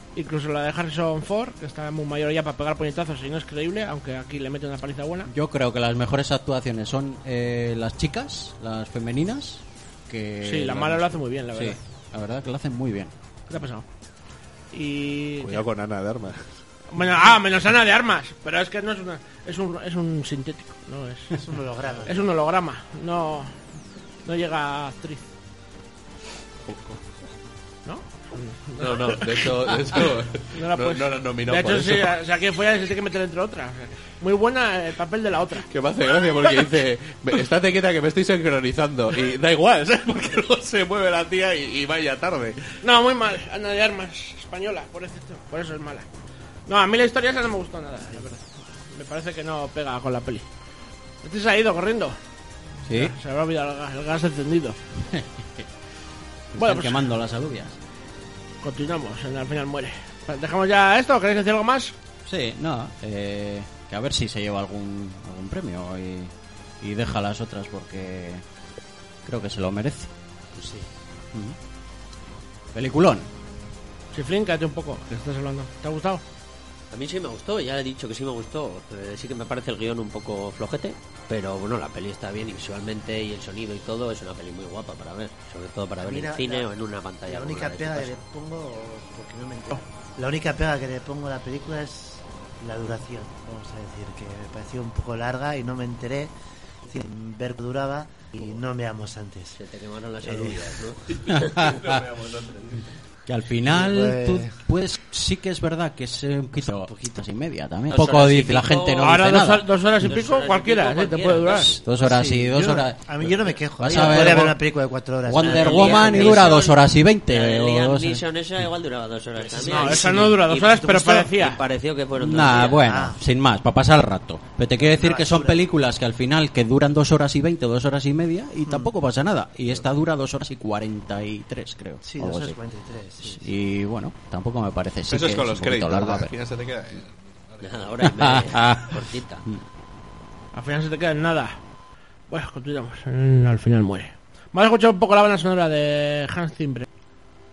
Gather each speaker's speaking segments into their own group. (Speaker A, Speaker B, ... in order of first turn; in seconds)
Speaker A: 0.1-5.3, 10.4-11.8, 13.5-13.8, 14.7-15.6, 16.9-21.4, 22.0-23.6, 24.2-25.3, 27.8-35.7, 42.8-46.1, 46.7-50.4, 51.2-52.1, 52.9-54.8, 56.6-57.0, 58.6-61.9, 74.1-76.2, 109.0-111.8, 119.5-121.6, 140.5-141.6, 142.3-146.8
Speaker B: 5.3-13.1, 52.9-53.1, 55.1-55.6, 56.5-57.8, 62.2-68.4, 69.2-70.1, 72.7-73.3, 101.3-102.0, 103.3-109.6, 111.5-113.0, 113.8-114.6, 115.2-118.2, 122.2-132.6, 133.2-136.3, 138.0-139.6
Speaker C: 15.4-16.6, 26.7-27.0, 28.8-32.1, 35.7-42.7, 101.3-102.8, 135.1-137.6
Speaker D: 21.4-22.2, 86.0-86.7, 87.3-96.3, 96.8-99.6, 100.2-100.8, 103.7-104.5, 106.8-107.2, 112.0-116.4, 119.4-121.2, 122.8-123.2, 124.8-125.6, 128.6-128.9, 132.0-133.5
Speaker E: 70.5-70.9, 76.9-88.2, 99.5-101.6, 107.9-109.2, 110.0-112.3, 113.8-114.5, 115.3-122.8, 137.6-139.4